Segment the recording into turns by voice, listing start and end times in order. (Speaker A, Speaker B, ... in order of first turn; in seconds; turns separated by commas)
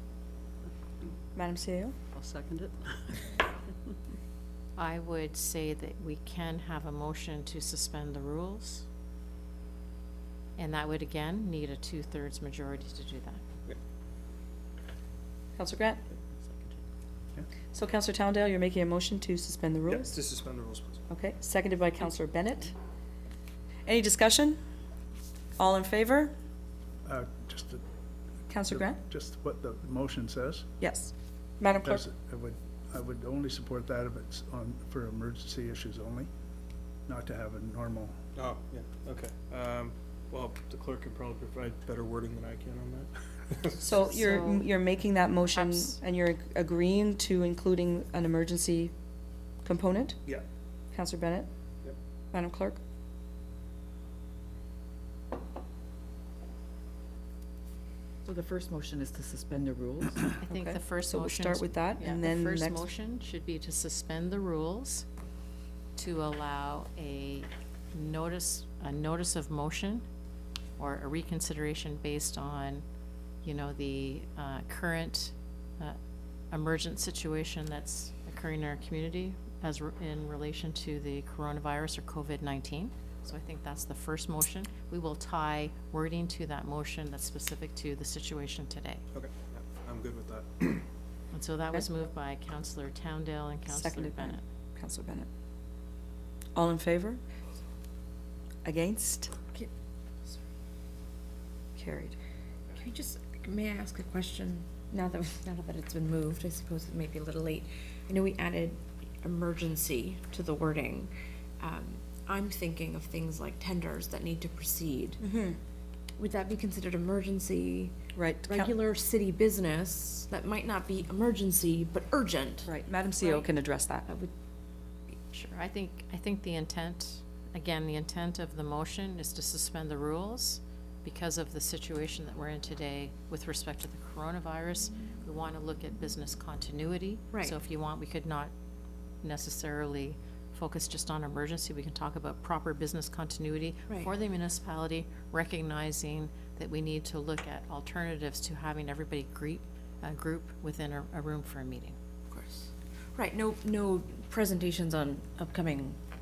Speaker A: 1.3-1.9, Speaker B: 2.1-3.2, Speaker C: 4.8-8.8, Speaker C: 10.6-13.4, Speaker A: 15.6-16.0, Speaker A: 17.7-20.1, Speaker D: 19.8-21.1, Speaker A: 21.1-22.7, Speaker A: 23.9-24.6, Speaker A: 25.6-26.3, Speaker E: 27.0-27.8, Speaker A: 28.5-29.0, Speaker E: 28.6-30.7, Speaker A: 30.8-32.0, Speaker E: 31.8-36.3, Speaker E: 37.1-38.1, Speaker D: 38.3-44.0, Speaker A: 43.8-48.9, Speaker C: 44.0-44.7, Speaker C: 45.5-46.0, Speaker A: 49.6-50.2, Speaker A: 50.9-51.5, Speaker A: 52.3-52.8, Speaker B: 58.2-60.4, Speaker C: 60.4-65.0, Speaker A: 60.5-62.9, Speaker C: 66.0-70.0, Speaker C: 70.8-72.8, Speaker C: 73.4-76.0, Speaker C: 76.5-89.0, Speaker D: 89.1-90.8, Speaker C: 91.3-94.4, Speaker A: 93.7-95.3, Speaker A: 96.5-97.2, Speaker A: 98.6-99.3, Speaker A: 101.8-102.2, Speaker F: 102.7-115.2, Speaker A: 115.2-115.6, Speaker F: 116.2-123.5, Speaker A: 118.1-118.7, Speaker A: 122.6-124.1, Speaker F: 124.0-124.3, Speaker C: 125.3-138.5, Speaker F: 137.3-137.6, Speaker C: 139.2-151.9, Speaker F: 152.3-156.0